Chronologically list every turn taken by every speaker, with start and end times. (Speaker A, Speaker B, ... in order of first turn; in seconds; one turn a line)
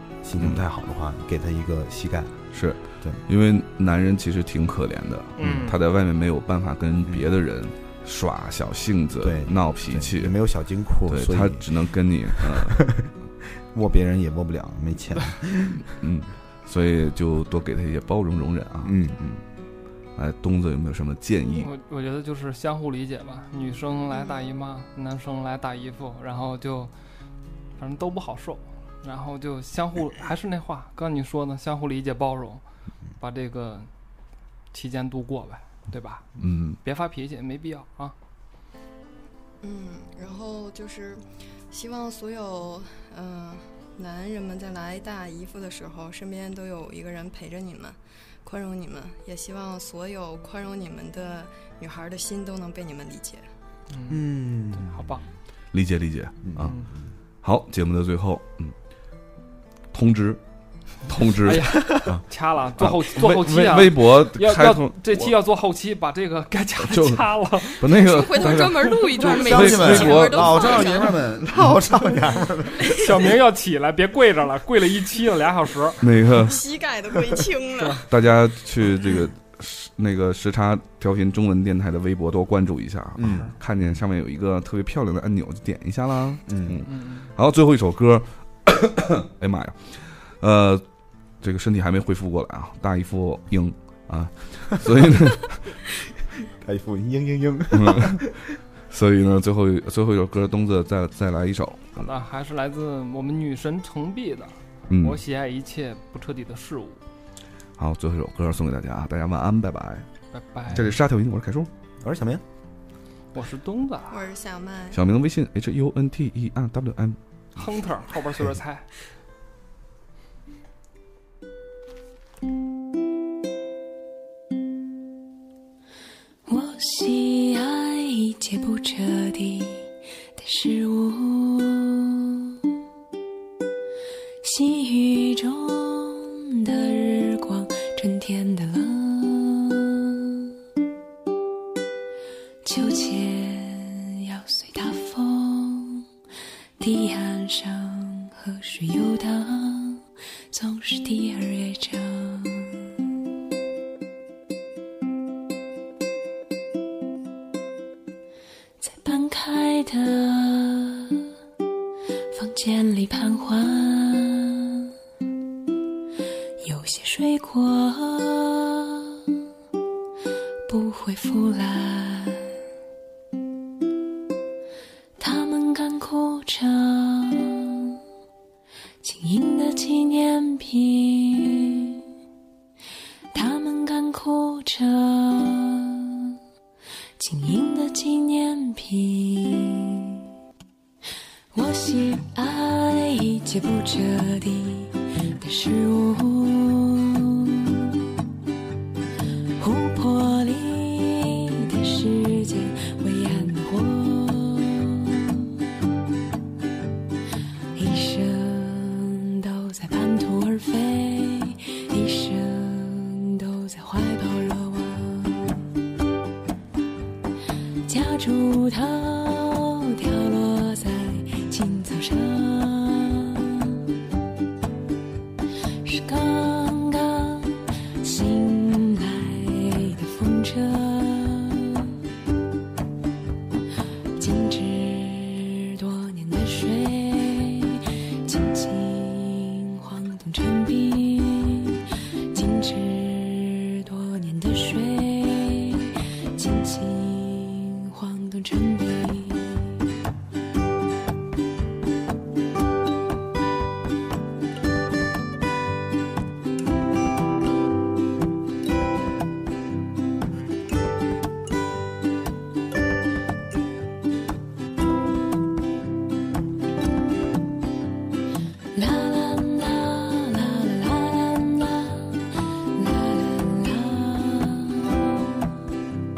Speaker A: 0.2-2.3
Speaker B: 2.5-10.4
Speaker C: 5.4-5.8
Speaker A: 9.2-11.7
Speaker B: 11.1-12.9
Speaker A: 12.4-13.1
Speaker A: 13.7-15.8
Speaker B: 15.9-19.0
Speaker A: 18.8-19.4
Speaker B: 20.1-21.7
Speaker C: 21.5-26.9
Speaker C: 27.8-32.6
Speaker C: 33.2-33.9
Speaker C: 34.7-36.3
Speaker B: 36.4-36.8
Speaker C: 36.8-38.1
Speaker D: 39.6-53.5
Speaker C: 53.9-55.2
Speaker A: 54.1-55.0
Speaker B: 55.7-56.7
Speaker A: 56.4-56.7
Speaker C: 56.6-56.9
Speaker B: 57.4-58.7
Speaker B: 59.9-60.4
Speaker B: 61.1-62.2
Speaker C: 61.4-67.9
Speaker A: 61.8-62.1
Speaker B: 62.8-65.3
Speaker B: 66.8-67.2
Speaker B: 67.8-70.8
Speaker D: 67.9-71.2
Speaker A: 69.2-73.2
Speaker C: 72.9-76.0
Speaker B: 76.0-76.6
Speaker D: 76.4-78.0
Speaker C: 77.8-78.0
Speaker B: 78.1-90.8
Speaker A: 83.2-83.5
Speaker A: 86.5-86.8
Speaker C: 86.9-87.3
Speaker B: 91.4-95.7
Speaker A: 96.6-98.4
Speaker B: 97.7-98.3
Speaker B: 98.9-102.1
Speaker C: 102.0-107.0
Speaker B: 104.9-105.2
Speaker B: 107.8-110.1
Speaker C: 110.3-110.9
Speaker B: 110.7-111.7
Speaker A: 112.0-112.4
Speaker C: 113.3-114.2
Speaker D: 114.1-115.0
Speaker B: 114.9-117.2
Speaker C: 117.5-118.9
Speaker E: 126.5-132.6
Speaker E: 134.4-140.5
Speaker E: 142.6-146.1
Speaker E: 146.8-153.0
Speaker E: 158.8-161.3
Speaker E: 162.3-164.9
Speaker E: 166.6-169.3
Speaker E: 170.7-172.6
Speaker E: 175.2-178.0
Speaker E: 179.0-182.0
Speaker E: 183.3-186.4
Speaker E: 187.2-190.2
Speaker E: 191.5-197.9
Speaker E: 199.6-205.5
Speaker E: 207.7-215.7
Speaker E: 217.9-223.8
Speaker E: 225.8-232.0
Speaker E: 234.2-249.8
Speaker E: 268.7-275.5